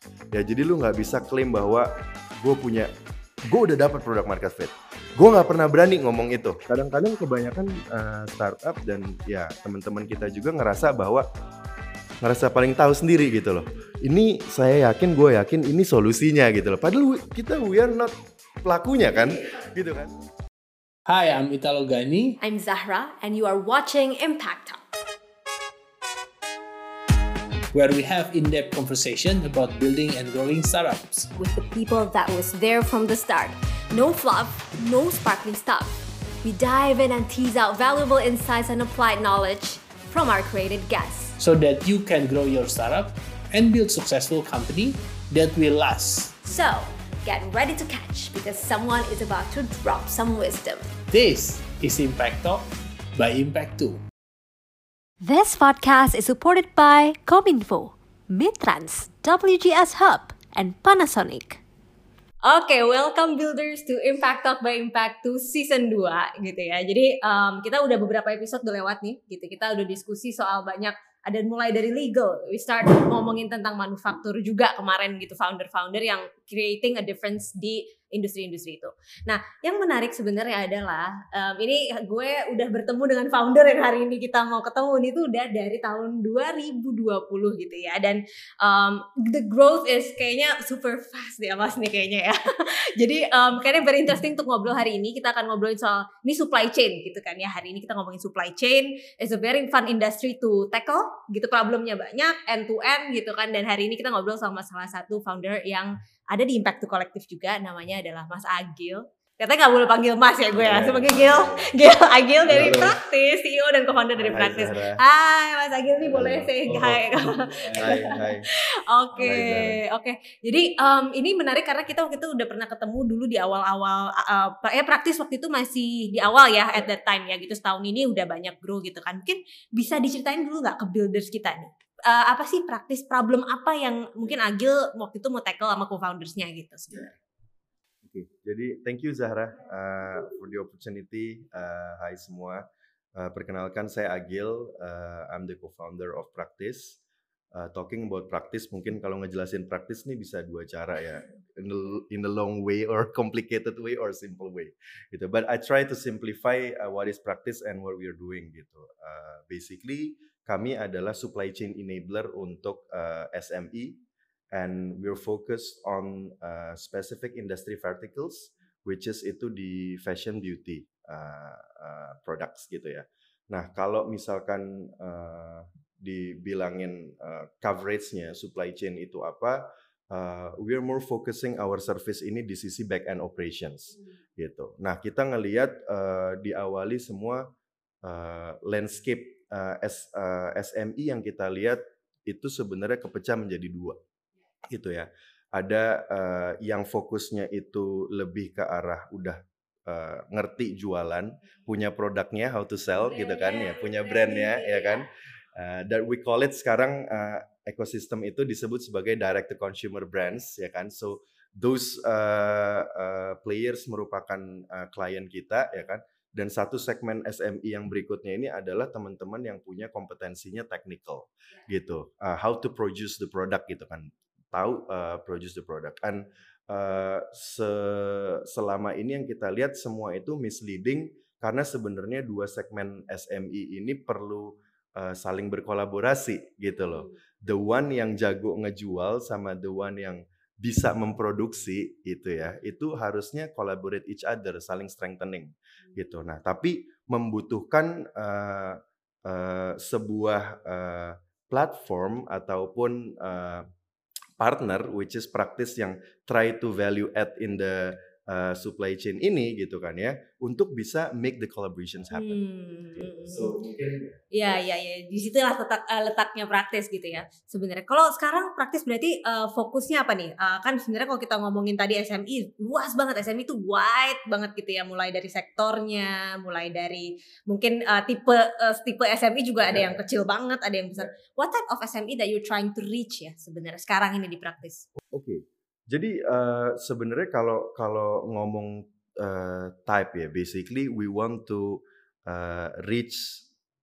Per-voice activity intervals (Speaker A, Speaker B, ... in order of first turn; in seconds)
Speaker A: 0.3-2.9, 3.5-11.3, 12.2-20.1, 110.6-111.7, 112.5-113.0, 114.2-115.0, 116.1-118.5, 119.2-119.8, 138.1-142.6, 143.2-147.0, 147.5-164.0, 164.5-187.5, 188.0-194.0, 194.7-253.7, 254.4-262.4, 262.9-264.2, 285.1-293.5
Speaker B: 21.1-22.4, 27.7-31.3, 41.4-46.4, 51.1-54.0
Speaker C: 22.4-24.8, 31.4-41.4, 46.4-50.9, 55.2-61.6, 62.4-137.1, 203.0-205.1, 262.1-263.6, 264.3-284.9